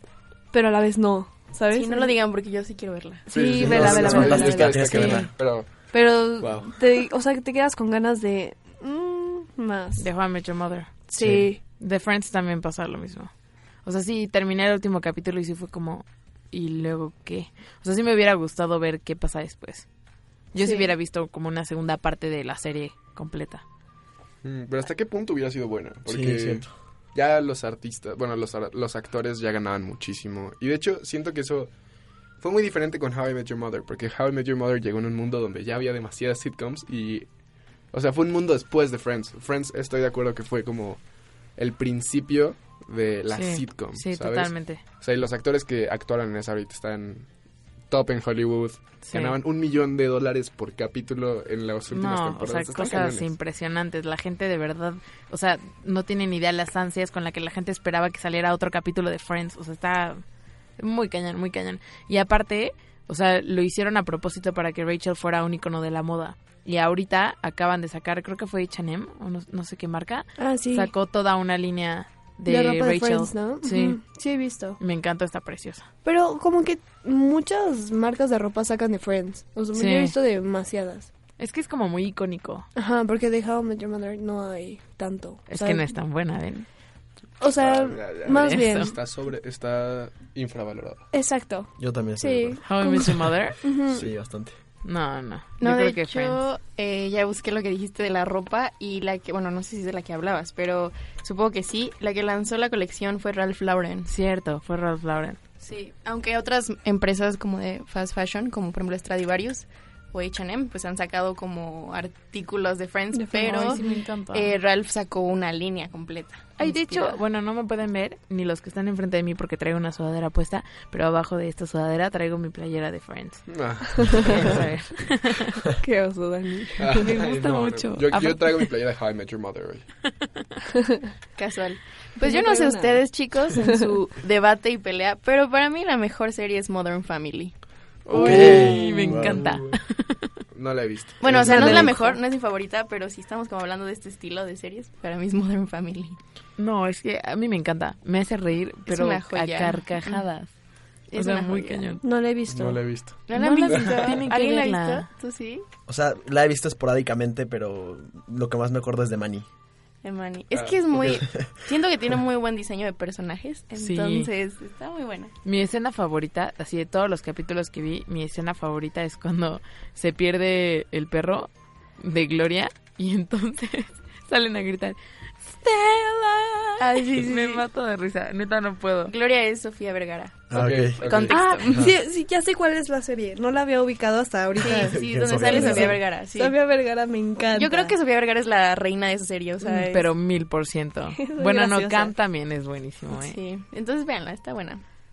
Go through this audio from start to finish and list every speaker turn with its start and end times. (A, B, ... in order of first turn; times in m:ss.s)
0:00.5-0:02.1 A
0:01.7-0:03.3 B
0:03.3-0:05.3 A
0:03.3-0:06.7 C
0:03.5-0:05.3 D
0:05.9-0:10.1 A
0:10.0-0:10.9 E
0:11.1-0:11.6 A
0:11.2-0:11.5 D
0:11.8-0:13.3 E
0:13.8-0:19.9 E
0:20.5-0:23.6 E
0:20.6-0:20.9 A
0:24.4-0:31.7 C
0:26.1-0:26.7 D
0:32.4-0:37.3 C
0:37.9-0:41.0 C
0:41.6-0:47.3 C
0:43.3-0:44.8 E
0:47.9-0:53.3 C
0:49.1-0:49.4 E
0:51.9-1:00.2 E
1:00.8-1:14.0 E
1:10.4-1:10.9 A
1:12.5-1:14.8 A
1:14.8-1:15.9 E
1:16.0-1:21.1 A
1:19.7-1:20.1 E
1:21.4-1:22.7 E
1:22.8-1:25.9 A
1:25.5-1:26.7 E
1:27.4-1:29.0 A
1:27.6-1:31.0 C
1:28.4-1:28.9 E
1:31.1-1:34.0 A
1:31.8-1:32.6 D
1:32.7-1:33.6 E
1:33.9-1:34.5 D
1:34.8-1:36.4 E
1:35.6-1:44.1 B
1:44.1-1:45.4 E
1:45.6-1:57.2 B
1:53.1-1:54.0 A
1:53.5-1:54.5 E
1:56.6-2:03.5 E
2:03.5-2:04.6 C
2:04.0-2:04.4 A
2:04.2-2:05.6 E
2:05.8-2:07.2 A
2:06.8-2:09.8 C
2:07.0-2:08.7 E
2:11.4-2:17.5 B
2:12.2-2:13.0 A
2:18.1-2:20.4 E
2:18.1-2:19.5 D
2:18.4-2:19.8 C
2:20.5-2:21.9 C
2:21.2-2:26.2 B
2:21.3-2:22.2 A
2:26.6-2:30.5 E
2:28.9-2:30.2 B
2:31.1-2:31.9 B
2:31.1-2:32.0 E
2:32.0-2:33.0 A
2:32.5-2:33.3 C
2:33.3-2:35.6 B
2:33.3-2:35.1 E
2:35.9-2:39.5 D
2:40.0-2:45.3 B
2:40.5-2:41.2 C
2:43.8-2:44.3 E
2:45.4-2:59.1 E
2:56.8-2:57.6 B
2:59.1-3:00.5 B
3:00.5-3:01.0 D
3:00.5-3:01.4 C
3:01.0-3:01.7 E
3:01.3-3:08.0 A
3:04.6-3:06.6 B
3:04.7-3:06.0 D
3:07.5-3:10.1 B
3:09.6-3:09.9 A
3:09.9-3:13.4 E
3:11.2-3:12.1 A
3:13.2-3:14.8 B